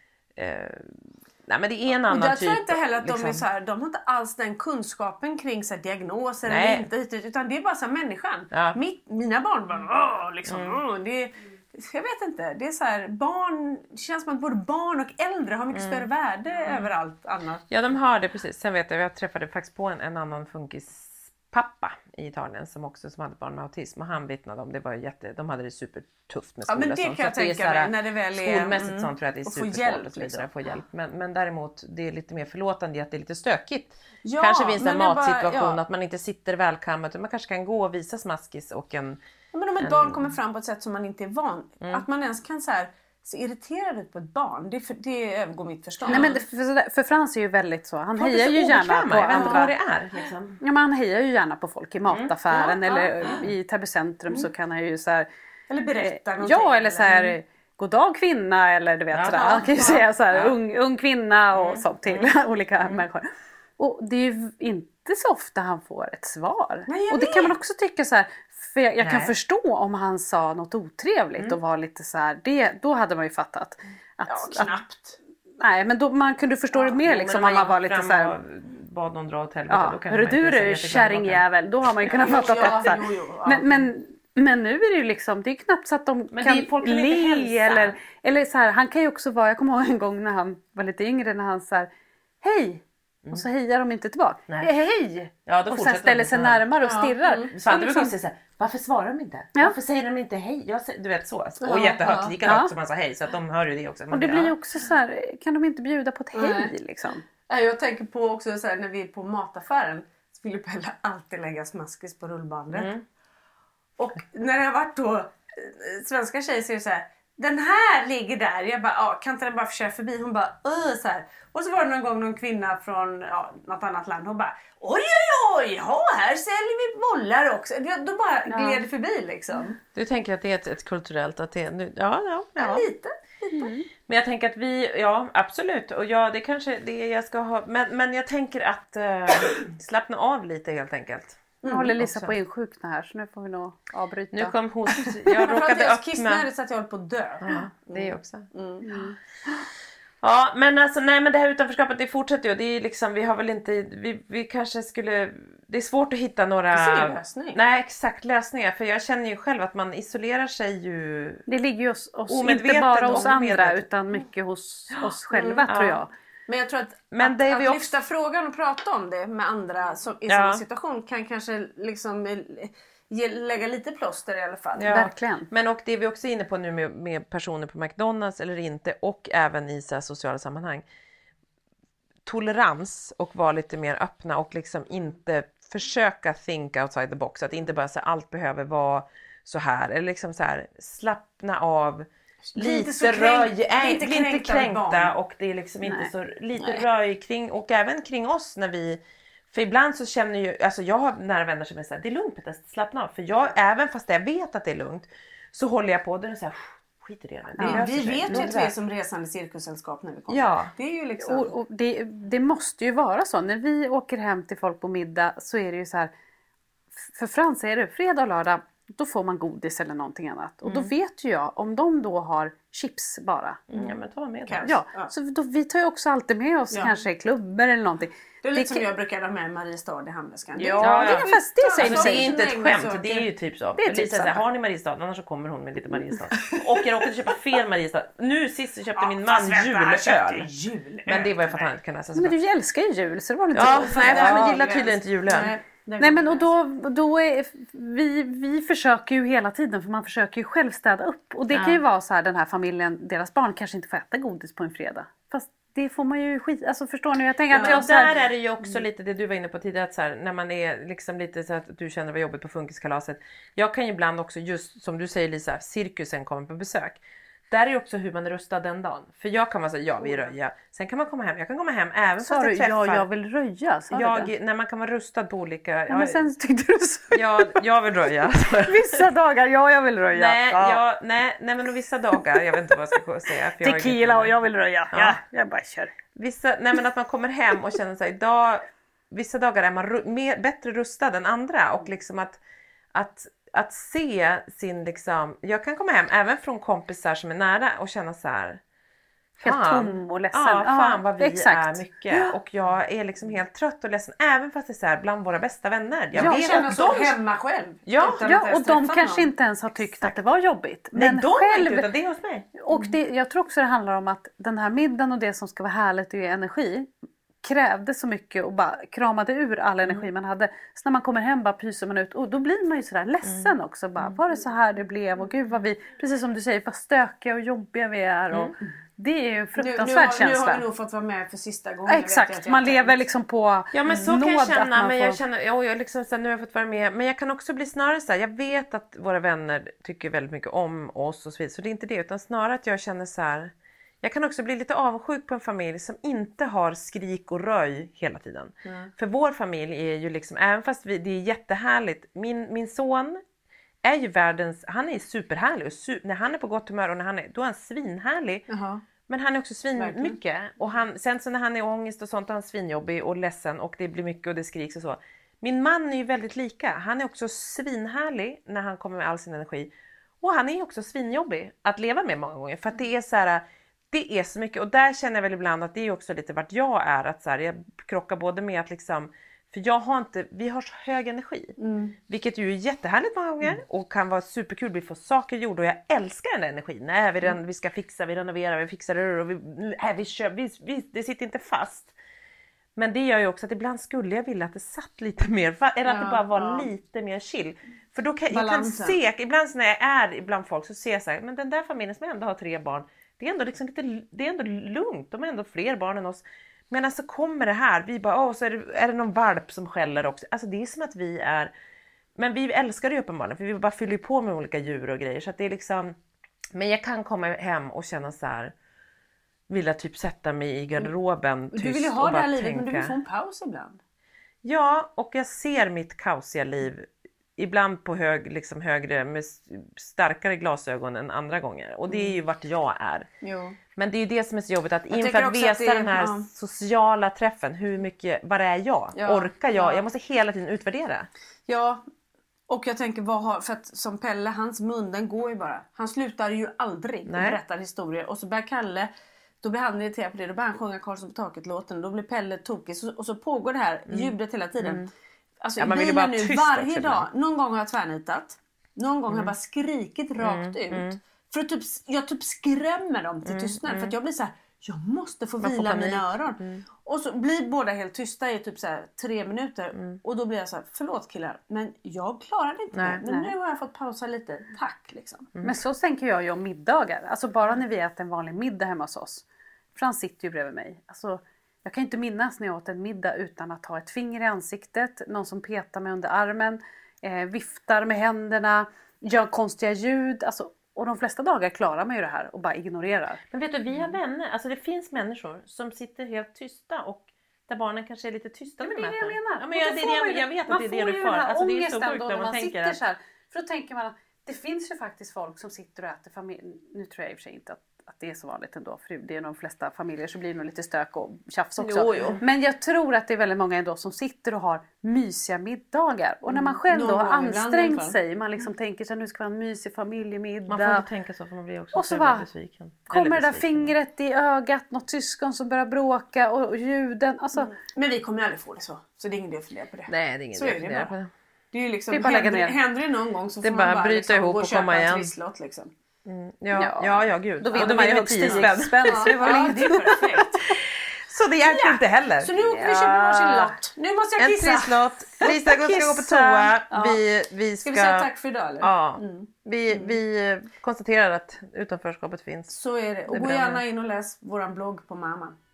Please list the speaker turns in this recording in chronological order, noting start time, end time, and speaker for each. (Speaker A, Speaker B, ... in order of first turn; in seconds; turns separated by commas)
Speaker A: 0.4-3.4, Speaker B: 2.1-17.7, Speaker A: 6.5-6.9, Speaker A: 8.5-8.8, Speaker A: 10.5-10.8, Speaker A: 15.7-16.1, Speaker A: 17.7-39.2, Speaker B: 26.7-30.5, Speaker B: 34.2-35.8, Speaker B: 39.5-46.4, Speaker A: 39.8-40.3, Speaker A: 46.1-46.4, Speaker C: 46.1-49.7, Speaker A: 48.2-50.6, Speaker B: 49.3-49.6, Speaker C: 50.6-55.3, Speaker A: 52.1-52.3, Speaker B: 52.5-53.4, Speaker B: 55.7-57.4, Speaker C: 56.0-74.8, Speaker A: 59.1-59.7, Speaker B: 59.3-60.1, Speaker A: 61.5-62.3, Speaker B: 66.9-67.5, Speaker A: 69.0-69.3, Speaker B: 74.3-75.2, Speaker C: 75.6-78.4, Speaker A: 77.0-81.4, Speaker C: 79.7-91.9, Speaker B: 82.1-83.9, Speaker A: 86.3-88.0, Speaker C: 92.4-98.1, Speaker A: 95.5-96.7, Speaker B: 96.8-97.5, Speaker A: 97.5-104.5, Speaker B: 101.6-102.3, Speaker C: 102.5-102.7, Speaker C: 104.1-107.2, Speaker B: 106.3-106.7, Speaker B: 107.4-112.9, Speaker A: 112.7-113.0, Speaker B: 114.0-129.8, Speaker C: 128.5-128.8, Speaker A: 129.9-132.9, Speaker B: 132.6-133.7, Speaker C: 133.5-133.9, Speaker A: 134.1-142.3, Speaker B: 141.6-142.0, Speaker C: 141.7-144.5, Speaker A: 144.3-146.5, Speaker B: 145.3-148.9, Speaker A: 147.4-148.5, Speaker C: 148.8-149.2, Speaker A: 150.2-161.4, Speaker B: 156.7-157.6, Speaker C: 161.5-166.1, Speaker A: 162.3-163.9, Speaker B: 165.3-165.7, Speaker A: 165.7-166.0, Speaker B: 166.5-174.9, Speaker A: 167.1-168.0, Speaker A: 170.3-170.6, Speaker A: 174.8-180.8, Speaker C: 174.9-175.5, Speaker A: 182.2-199.0, Speaker B: 192.5-195.1, Speaker C: 195.8-196.1, Speaker A: 199.5-208.7, Speaker C: 207.6-208.5, Speaker B: 207.6-211.5, Speaker A: 210.3-210.7, Speaker C: 211.2-216.1, Speaker C: 217.0-223.6, Speaker A: 220.7-220.9, Speaker A: 223.7-224.7, Speaker B: 224.5-225.1, Speaker C: 224.7-228.8, Speaker B: 226.7-227.0, Speaker B: 228.4-233.3, Speaker C: 230.6-232.3, Speaker A: 230.8-240.5, Speaker C: 233.8-234.4, Speaker B: 239.0-241.7, Speaker A: 241.1-242.4, Speaker C: 242.2-244.6, Speaker A: 243.5-245.5, Speaker B: 243.6-246.5, Speaker C: 246.0-258.1, Speaker A: 251.5-251.8, Speaker A: 257.5-273.1, Speaker B: 257.5-258.1, Speaker C: 272.2-274.3, Speaker A: 273.9-276.3, Speaker C: 275.9-277.3, Speaker A: 277.1-279.0, Speaker C: 278.7-280.8, Speaker A: 280.1-284.4, Speaker C: 283.6-285.9, Speaker A: 284.9-285.2, Speaker A: 286.1-292.4, Speaker A: 292.9-298.6, Speaker A: 299.4-307.2, Speaker C: 299.4-302.3, Speaker B: 306.1-309.3, Speaker C: 306.1-306.8, Speaker A: 307.9-308.2, Speaker C: 308.0-311.9, Speaker A: 310.9-312.5, Speaker C: 312.6-316.9, Speaker C: 317.4-330.6, Speaker A: 323.2-324.2, Speaker B: 329.6-333.0, Speaker C: 331.9-335.2, Speaker A: 333.7-353.2, Speaker B: 348.6-348.9, Speaker A: 353.8-358.5, Speaker B: 358.5-358.8, Speaker A: 359.1-381.6, Speaker B: 359.8-360.2, Speaker B: 381.6-382.0, Speaker A: 382.1-391.9, Speaker A: 392.8-411.5, Speaker B: 395.9-396.7, Speaker B: 398.3-399.0, Speaker A: 412.2-416.0, Speaker A: 416.5-418.5, Speaker A: 419.5-423.0, Speaker B: 421.5-423.8, Speaker A: 424.4-433.1, Speaker B: 431.9-432.1, Speaker B: 433.2-433.6, Speaker A: 433.8-441.1, Speaker B: 434.9-436.3, Speaker B: 438.9-439.8, Speaker B: 441.5-441.8, Speaker B: 442.5-448.9, Speaker A: 447.1-447.4, Speaker B: 449.4-454.9, Speaker A: 453.9-454.9, Speaker B: 455.4-475.3, Speaker A: 455.6-457.1, Speaker A: 459.1-459.3, Speaker A: 460.2-461.0, Speaker A: 463.2-464.0, Speaker A: 465.4-466.6, Speaker A: 469.7-470.0, Speaker A: 472.7-473.0, Speaker C: 473.1-473.3, Speaker C: 475.4-493.2, Speaker A: 493.3-502.8, Speaker C: 498.6-520.9, Speaker A: 511.6-512.2, Speaker B: 516.3-518.0, Speaker A: 520.5-523.8, Speaker C: 521.7-522.3, Speaker C: 522.9-527.5, Speaker B: 527.4-530.9, Speaker A: 529.9-531.1, Speaker B: 531.5-535.7, Speaker C: 531.9-532.5, Speaker A: 533.4-535.1, Speaker A: 536.0-539.4, Speaker C: 536.5-540.0, Speaker B: 537.5-540.5, Speaker A: 540.5-542.3, Speaker B: 541.5-546.9, Speaker C: 542.5-543.5, Speaker A: 544.2-548.1, Speaker B: 547.6-550.0, Speaker A: 548.6-552.5, Speaker B: 552.5-555.4, Speaker A: 553.1-553.6